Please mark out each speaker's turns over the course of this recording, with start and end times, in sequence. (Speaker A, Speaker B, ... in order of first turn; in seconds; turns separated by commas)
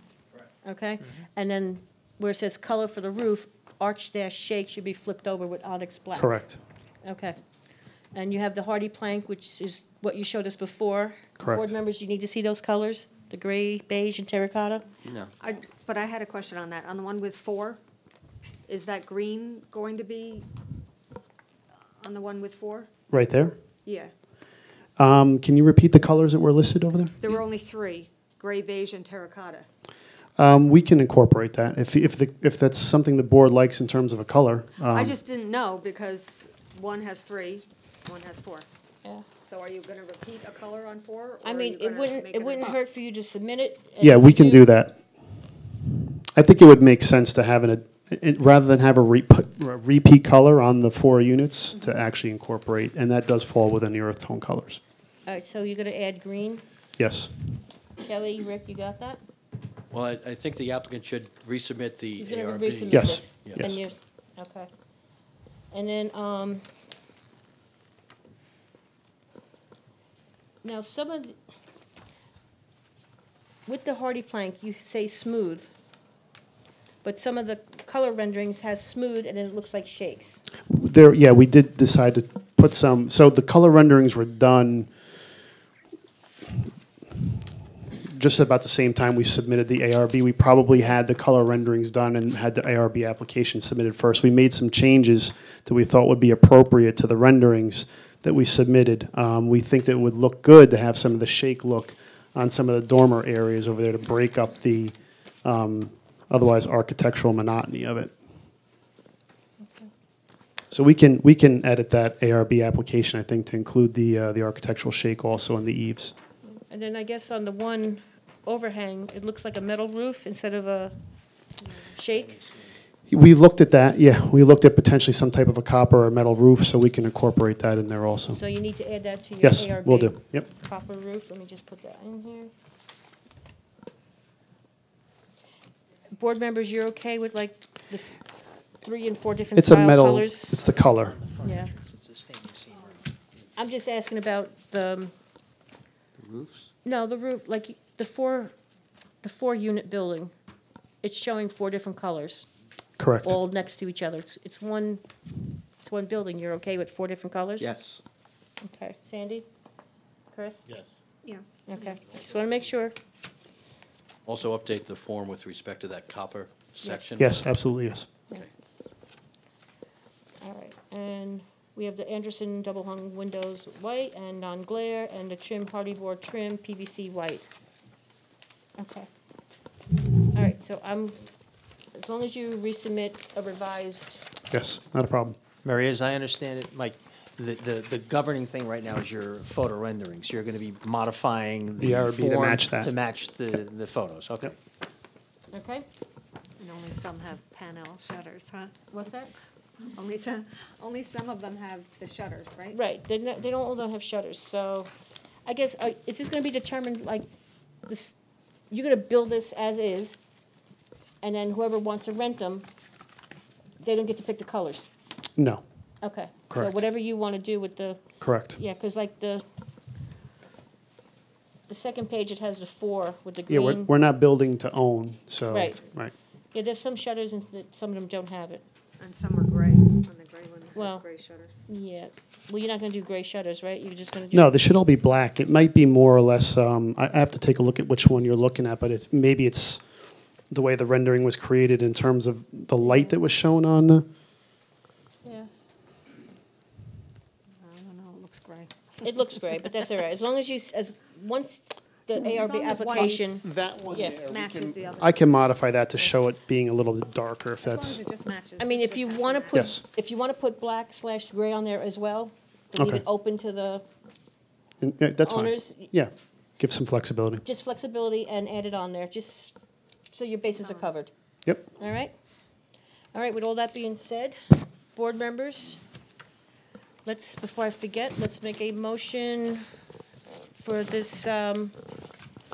Speaker A: 0.6-6.4, Speaker B: 6.1-6.6, Speaker A: 7.0-7.4, Speaker A: 8.1-14.8, Speaker B: 11.4-11.7, Speaker C: 15.4-17.8, Speaker C: 18.7-20.4, Speaker C: 22.0-22.9, Speaker B: 23.1-23.5, Speaker C: 23.8-24.1, Speaker B: 25.0-27.2, Speaker C: 27.2-29.7, Speaker B: 30.4-35.1, Speaker C: 34.9-38.7, Speaker C: 39.4-42.8, Speaker A: 41.4-44.7, Speaker B: 44.0-45.0, Speaker B: 46.3-54.8, Speaker C: 51.7-52.0, Speaker A: 55.2-56.6, Speaker B: 57.0-57.3, Speaker A: 58.0-59.2, Speaker D: 59.9-63.7, Speaker A: 62.2-64.7, Speaker B: 62.9-63.8, Speaker A: 65.7-66.6, Speaker A: 70.6-71.3, Speaker A: 73.7-75.7, Speaker A: 77.0-80.4, Speaker B: 80.7-84.9, Speaker B: 88.0-108.1, Speaker B: 110.7-116.1, Speaker A: 116.6-120.9, Speaker A: 122.0-122.4, Speaker B: 123.1-128.4, Speaker A: 128.3-132.5, Speaker B: 129.4-130.4, Speaker A: 136.1-138.1, Speaker A: 138.8-140.6, Speaker B: 139.6-141.2, Speaker E: 140.6-143.1, Speaker A: 141.4-141.7, Speaker A: 143.6-145.1, Speaker E: 146.2-146.7, Speaker A: 146.8-148.5, Speaker A: 149.2-150.3, Speaker A: 151.0-152.5, Speaker B: 153.0-153.4, Speaker A: 153.2-155.0, Speaker A: 155.8-157.7, Speaker D: 157.6-158.0, Speaker A: 158.6-159.4, Speaker A: 160.3-160.7, Speaker C: 161.2-161.9, Speaker A: 161.7-162.9, Speaker D: 164.2-167.3, Speaker A: 166.8-167.2, Speaker B: 167.2-168.1, Speaker A: 170.4-177.4, Speaker A: 178.8-179.1, Speaker A: 180.3-181.2, Speaker A: 181.9-184.2, Speaker B: 184.5-185.3, Speaker E: 185.6-194.6, Speaker B: 191.8-192.9, Speaker A: 195.5-195.8, Speaker C: 196.6-198.7, Speaker A: 198.9-199.3, Speaker C: 199.9-202.8, Speaker A: 202.7-204.9, Speaker A: 205.4-207.2, Speaker A: 207.9-208.2, Speaker A: 208.7-210.2, Speaker A: 211.2-212.7, Speaker A: 213.8-214.9, Speaker B: 215.4-215.6, Speaker A: 216.0-219.4, Speaker B: 218.2-218.6, Speaker A: 221.7-223.9, Speaker B: 223.5-226.1, Speaker A: 225.5-225.8, Speaker A: 226.5-228.6, Speaker C: 229.0-231.6, Speaker A: 230.8-231.0, Speaker A: 231.7-234.5, Speaker B: 234.3-239.8, Speaker B: 240.5-244.0, Speaker A: 242.8-243.2, Speaker A: 245.2-245.5, Speaker C: 247.6-249.7, Speaker A: 249.0-254.2, Speaker C: 252.2-255.2, Speaker B: 253.4-258.0, Speaker C: 257.6-259.7, Speaker A: 258.6-263.8, Speaker B: 259.5-259.8, Speaker B: 262.7-263.0, Speaker B: 264.8-267.4, Speaker A: 265.2-265.9, Speaker A: 267.4-269.5, Speaker A: 270.1-271.1, Speaker C: 270.4-270.9, Speaker A: 271.8-272.1, Speaker A: 273.1-274.4, Speaker A: 274.9-275.8, Speaker A: 277.1-279.7, Speaker A: 280.6-281.7